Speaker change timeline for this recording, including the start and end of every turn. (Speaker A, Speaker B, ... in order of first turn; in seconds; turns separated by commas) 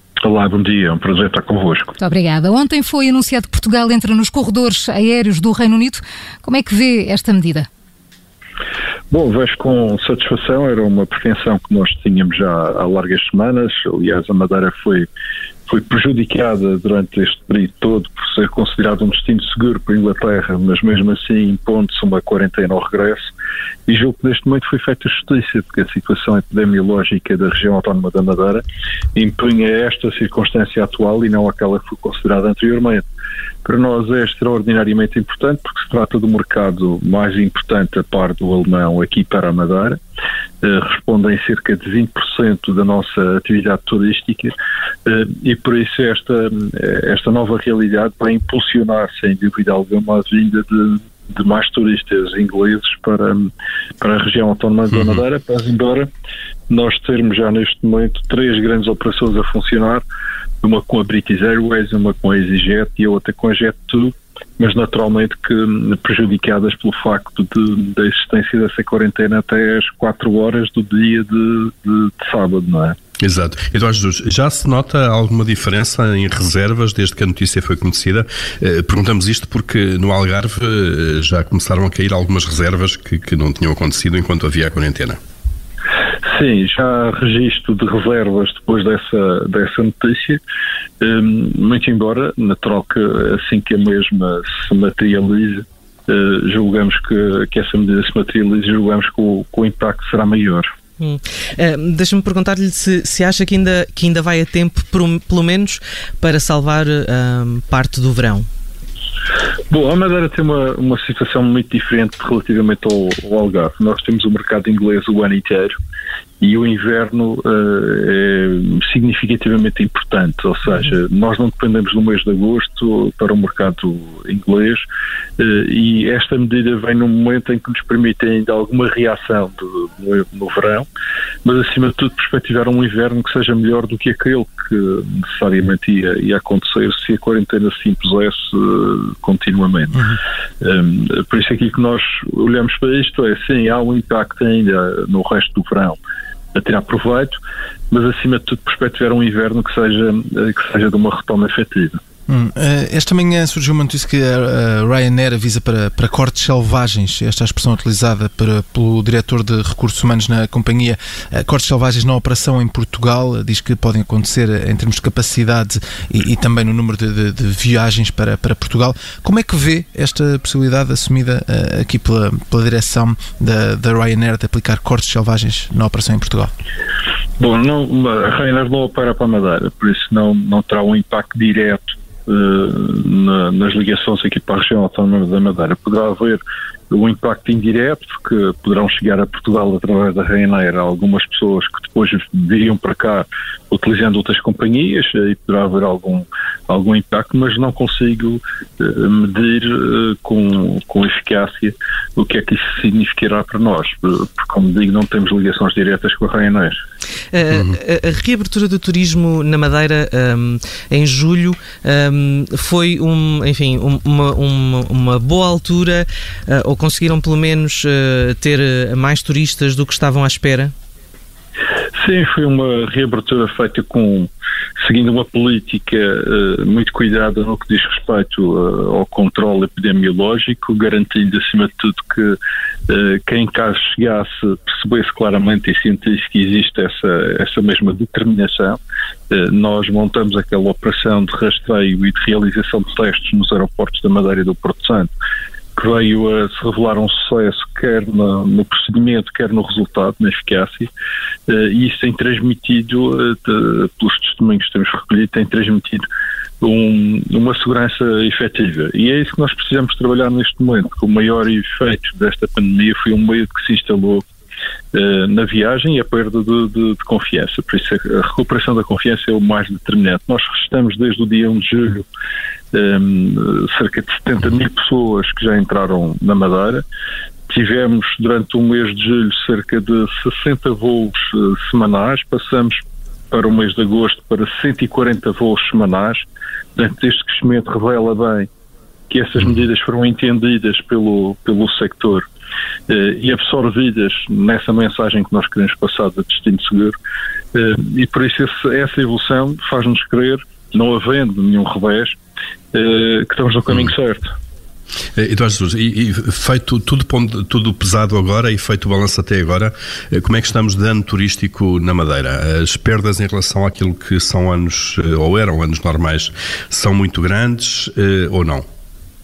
Speaker A: 0.2-1.9, Speaker B: 2.0-7.7, Speaker A: 9.1-15.1, Speaker A: 15.7-23.3, Speaker A: 23.9-28.6, Speaker A: 29.1-33.0, Speaker A: 33.6-40.0, Speaker A: 40.6-53.5, Speaker A: 54.0-56.1, Speaker A: 56.7-60.0, Speaker A: 60.6-73.0, Speaker C: 73.2-85.2, Speaker A: 86.2-90.4, Speaker A: 91.0-100.7, Speaker D: 101.0-108.5, Speaker A: 109.7-115.8, Speaker A: 116.4-124.8, Speaker A: 125.4-130.9, Speaker A: 131.4-140.0, Speaker A: 140.6-146.0, Speaker A: 146.5-147.4, Speaker A: 147.9-152.0, Speaker E: 152.3-176.5, Speaker A: 177.4-186.4, Speaker A: 186.9-206.8, Speaker D: 207.3-220.7, Speaker C: 207.5-207.8, Speaker A: 221.9-232.4, Speaker A: 232.9-238.8, Speaker A: 239.3-245.1, Speaker A: 245.8-250.9, Speaker A: 251.5-256.1, Speaker A: 256.6-264.2, Speaker A: 264.9-272.1, Speaker A: 272.7-276.8, Speaker A: 277.5-286.2, Speaker A: 286.8-288.5, Speaker A: 289.1-292.2, Speaker A: 292.9-296.9, Speaker A: 297.5-302.2, Speaker A: 302.7-304.3, Speaker C: 305.2-318.6